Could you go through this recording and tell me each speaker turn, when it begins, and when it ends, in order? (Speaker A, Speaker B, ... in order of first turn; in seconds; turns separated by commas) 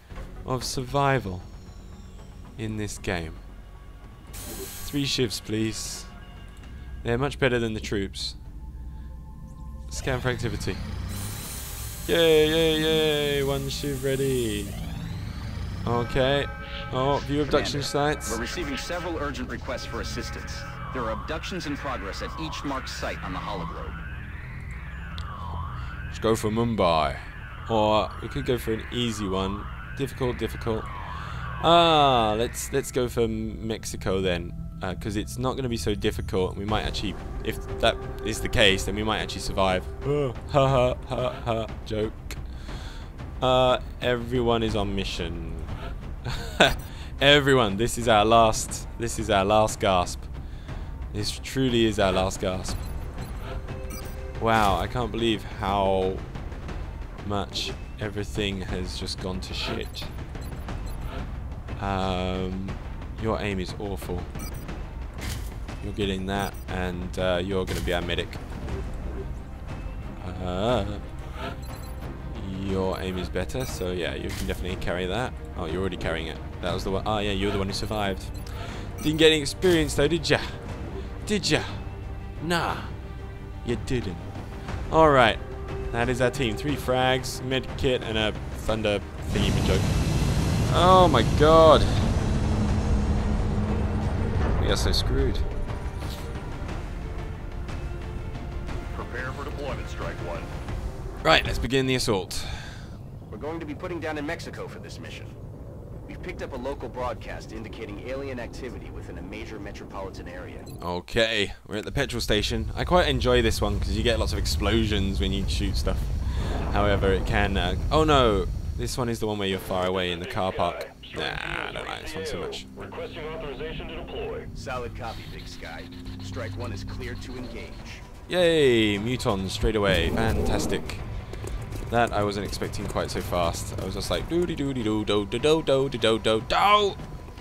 Speaker A: 0.4-1.5, Speaker A: 2.6-3.4, Speaker A: 4.8-6.1, Speaker A: 7.0-8.4, Speaker A: 9.9-10.8, Speaker A: 12.1-14.8, Speaker A: 15.8-18.4, Speaker B: 17.5-24.0, Speaker A: 26.1-30.9, Speaker A: 31.6-42.9, Speaker A: 43.4-45.7, Speaker A: 46.2-50.3, Speaker A: 51.1-52.9, Speaker A: 54.4-56.2, Speaker A: 57.2-60.1, Speaker A: 61.8-64.3, Speaker A: 65.8-68.4, Speaker A: 70.2-71.0, Speaker A: 72.3-80.6, Speaker A: 81.2-81.8, Speaker A: 82.4-82.9, Speaker A: 83.6-84.3, Speaker A: 84.9-90.0, Speaker A: 90.6-92.1, Speaker A: 94.6-95.4, Speaker C: 98.9-100.5, Speaker A: 101.2-102.8, Speaker B: 103.3-105.3, Speaker B: 106.0-110.7, Speaker A: 110.8-122.7, Speaker C: 120.2-124.5, Speaker B: 124.5-128.0, Speaker A: 128.3-131.0, Speaker A: 131.8-137.0